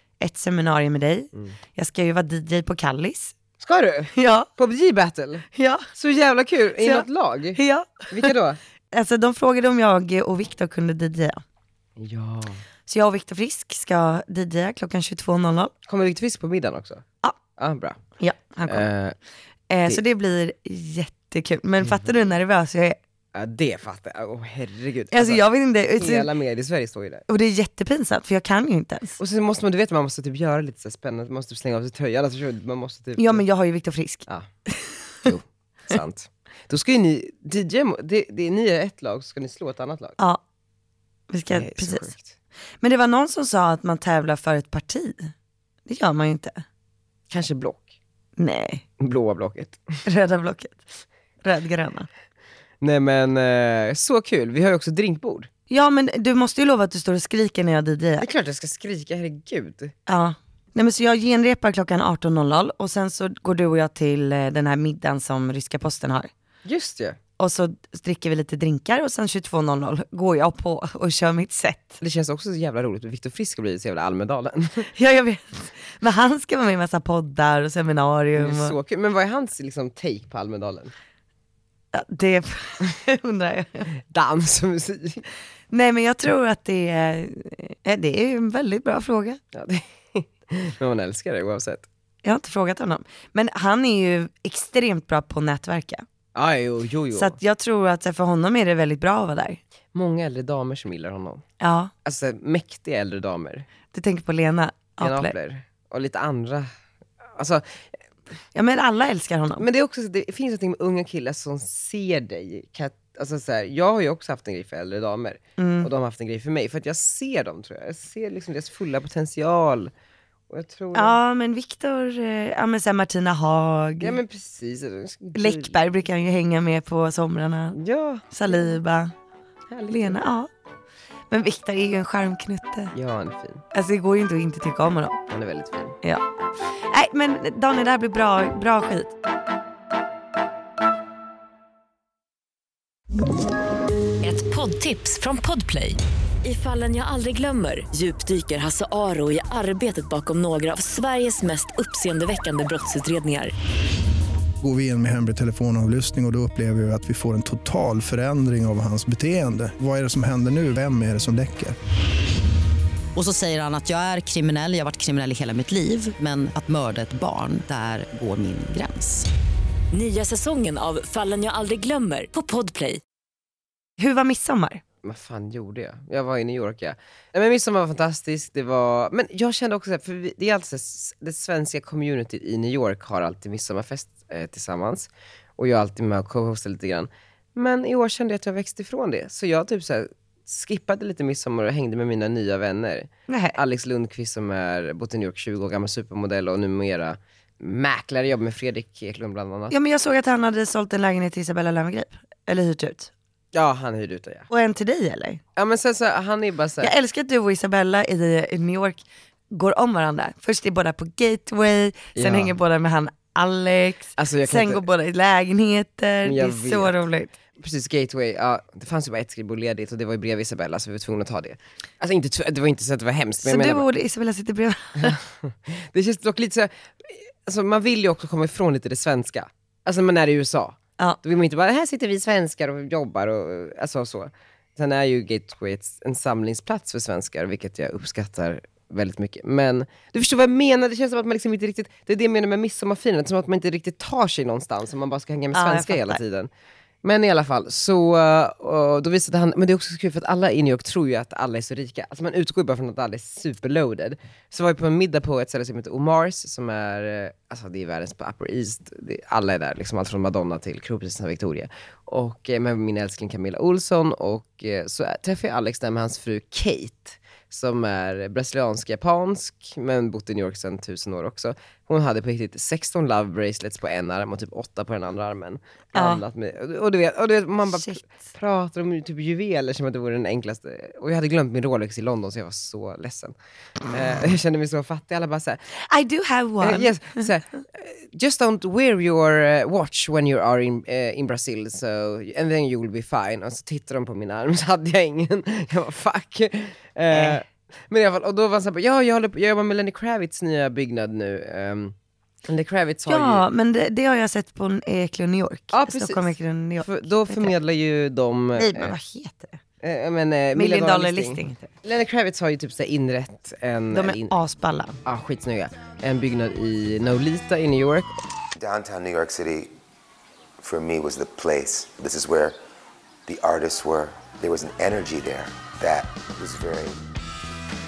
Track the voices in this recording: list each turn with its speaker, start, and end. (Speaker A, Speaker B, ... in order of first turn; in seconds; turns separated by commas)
Speaker A: 0.2-3.3, Speaker B: 3.6-8.6, Speaker A: 4.1-4.5, Speaker A: 5.5-5.9, Speaker A: 6.8-8.3, Speaker A: 8.9-11.4, Speaker B: 12.0-12.6, Speaker A: 12.9-15.7, Speaker B: 15.8-17.0, Speaker B: 17.6-18.0, Speaker A: 18.2-18.9, Speaker B: 18.6-19.1, Speaker A: 19.7-23.0, Speaker B: 23.3-27.2, Speaker A: 25.1-26.3, Speaker A: 27.3-29.2, Speaker B: 29.2-33.4, Speaker A: 33.2-35.1, Speaker B: 35.2-40.2, Speaker A: 41.3-42.1, Speaker B: 41.5-42.3, Speaker A: 42.8-45.3, Speaker A: 45.9-46.6, Speaker B: 47.3-47.9, Speaker A: 48.4-48.8, Speaker B: 49.0-49.8, Speaker A: 50.0-52.1, Speaker B: 52.8-55.5, Speaker A: 55.7-58.3, Speaker B: 58.2-59.9, Speaker A: 60.1-66.3, Speaker B: 66.6-67.2, Speaker A: 67.4-72.0, Speaker B: 72.0-74.9, Speaker A: 74.9-78.7, Speaker B: 78.3-80.9, Speaker A: 81.9-83.9, Speaker B: 84.1-85.2, Speaker A: 85.7-89.4, Speaker B: 89.5-91.8, Speaker A: 92.2-96.0, Speaker B: 96.3-97.4, Speaker A: 97.1-99.6, Speaker B: 99.9-101.4, Speaker A: 101.6-101.9, Speaker B: 102.0-103.7, Speaker A: 103.9-105.3, Speaker B: 105.0-106.7, Speaker B: 107.3-107.8, Speaker A: 108.5-109.6, Speaker B: 109.6-119.9, Speaker A: 115.6-115.9, Speaker B: 120.5-121.2, Speaker A: 120.9-124.2, Speaker B: 124.0-125.8, Speaker A: 125.3-127.8, Speaker B: 127.7-128.7, Speaker A: 128.3-129.1, Speaker B: 129.7-130.2, Speaker A: 129.9-130.5, Speaker A: 131.3-132.9, Speaker B: 132.9-133.6, Speaker A: 133.7-135.2, Speaker B: 135.3-136.0, Speaker A: 136.9-139.1, Speaker C: 144.2-153.5, Speaker D: 154.6-161.8, Speaker E: 163.1-169.3, Speaker C: 169.9-173.0, Speaker A: 174.0-174.8, Speaker B: 175.0-199.7, Speaker A: 193.3-193.6, Speaker A: 199.7-203.1, Speaker B: 203.5-204.5, Speaker A: 204.5-205.4, Speaker B: 205.6-206.9, Speaker A: 206.8-217.3, Speaker B: 212.2-212.5, Speaker B: 214.2-214.8, Speaker B: 216.2-217.0, Speaker B: 217.6-223.8, Speaker A: 223.4-225.2, Speaker B: 225.0-246.5, Speaker A: 245.5-246.2, Speaker B: 247.0-283.3, Speaker A: 275.9-276.2, Speaker A: 277.7-278.1, Speaker B: 283.9-285.6, Speaker A: 285.8-287.3, Speaker B: 286.6-303.4, Speaker A: 297.1-297.4, Speaker A: 303.1-307.5, Speaker B: 305.7-308.9, Speaker A: 308.6-309.6, Speaker B: 309.8-314.3, Speaker A: 310.5-311.7, Speaker A: 313.9-315.0, Speaker B: 315.0-318.1, Speaker F: 318.6-319.7, Speaker F: 320.6-322.6, Speaker F: 323.2-327.0